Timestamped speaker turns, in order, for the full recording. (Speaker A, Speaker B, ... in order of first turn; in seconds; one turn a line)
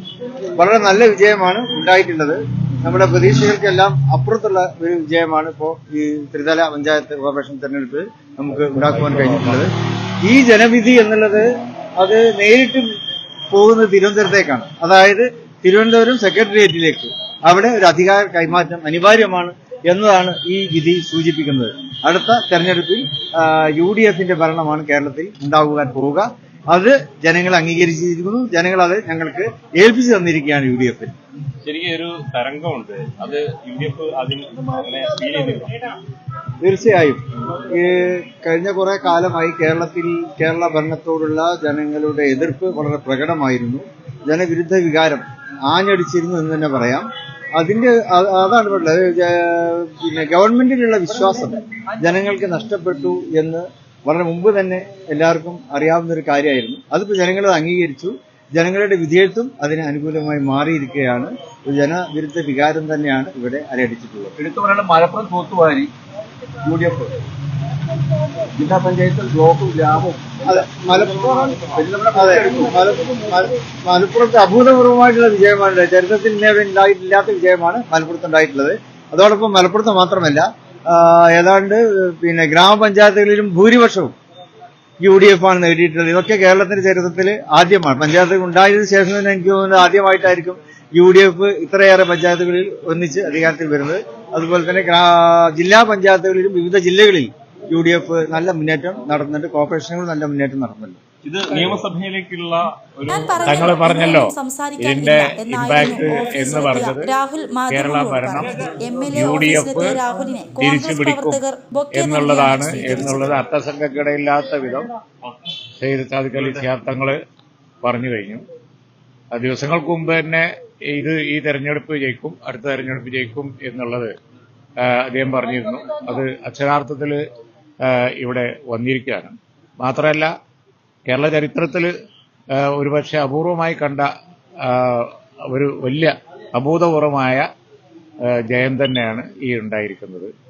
Speaker A: 0.5-9.7
Speaker B: 8.8-9.6
Speaker A: 10.2-12.9
Speaker A: 13.5-31.1
Speaker C: 31.6-35.7
Speaker A: 36.6-64.3
Speaker D: 64.4-65.9
Speaker D: 66.7-67.0
Speaker D: 68.6-72.5
Speaker A: 70.4-84.1
Speaker A: 85.0-101.0
Speaker C: 101.2-103.8
Speaker E: 103.1-113.4
Speaker B: 103.4-107.1
Speaker B: 107.7-110.0
Speaker B: 110.6-111.4
Speaker B: 111.9-114.9
Speaker B: 115.8-117.2
Speaker B: 117.8-118.4
Speaker B: 119.3-124.1
Speaker B: 124.8-127.2
Speaker B: 127.9-130.3
Speaker B: 131.1-131.9
Speaker B: 132.6-134.1
Speaker B: 134.7-137.4
Speaker B: 138.3-140.3